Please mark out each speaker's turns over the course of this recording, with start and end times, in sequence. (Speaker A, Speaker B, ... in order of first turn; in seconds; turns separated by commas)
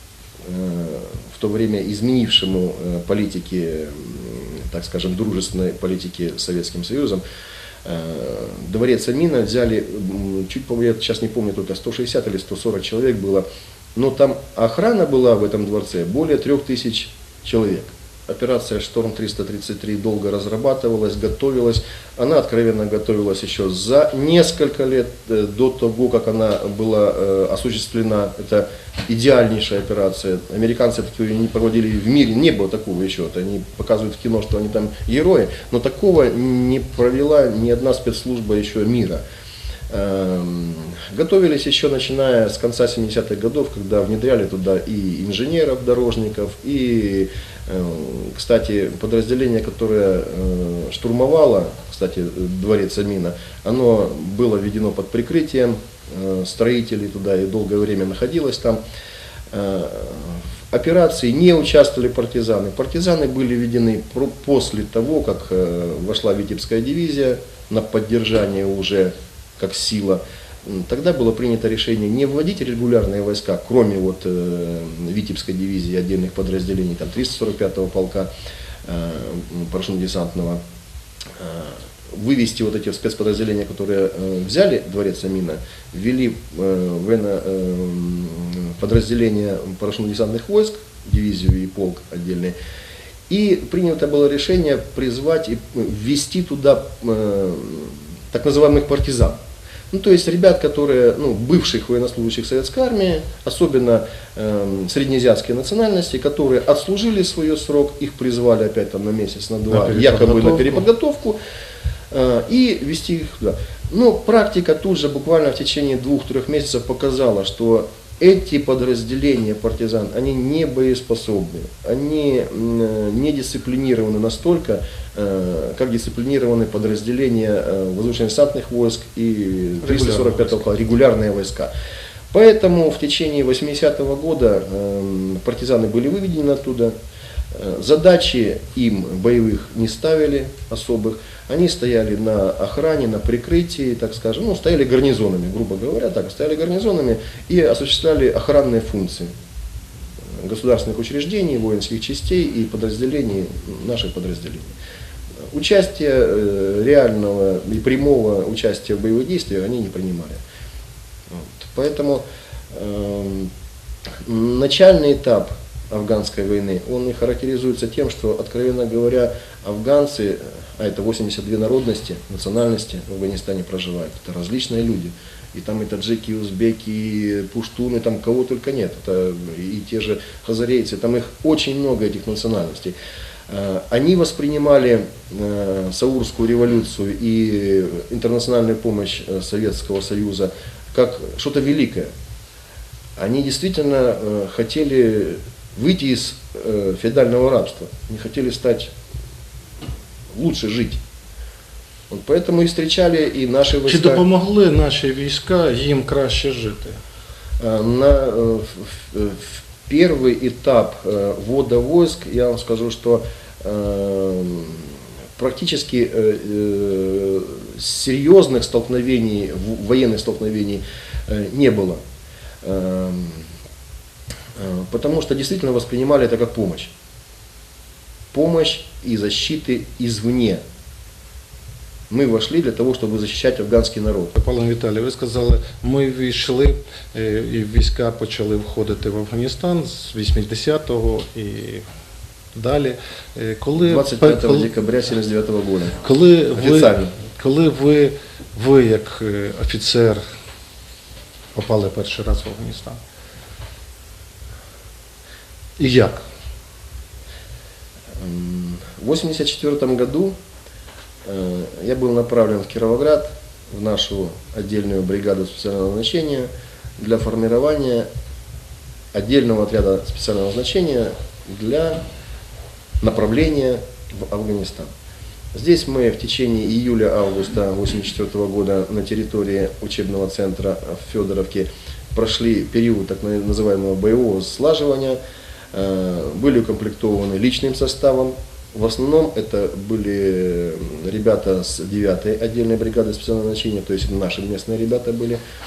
Speaker A: 0.4-7.2, Speaker A: 7.8-39.2, Speaker A: 39.9-58.8, Speaker A: 59.5-78.3, Speaker A: 78.8-80.6, Speaker A: 81.3-92.6, Speaker A: 93.3-111.4, Speaker B: 109.7-110.8, Speaker A: 112.1-131.7, Speaker B: 129.8-130.7, Speaker A: 132.3-136.9, Speaker A: 137.5-149.3, Speaker A: 150.3-154.7, Speaker A: 155.5-160.4, Speaker A: 161.3-163.5, Speaker A: 164.2-182.9, Speaker A: 183.5-192.1, Speaker A: 193.2-198.9, Speaker A: 200.3-201.0, Speaker A: 202.1-204.2, Speaker B: 203.9-207.0, Speaker A: 207.6-222.0, Speaker A: 222.6-223.5, Speaker A: 224.6-226.9, Speaker A: 228.3-230.6, Speaker A: 232.1-234.3, Speaker B: 234.3-241.8, Speaker B: 242.6-244.7, Speaker A: 243.8-246.0, Speaker B: 246.0-250.3, Speaker A: 246.5-247.1, Speaker B: 251.6-253.0, Speaker B: 255.8-256.2, Speaker A: 258.2-260.4, Speaker A: 261.2-268.1, Speaker A: 269.1-272.1, Speaker A: 273.0-274.9, Speaker A: 275.5-285.2, Speaker A: 285.7-295.4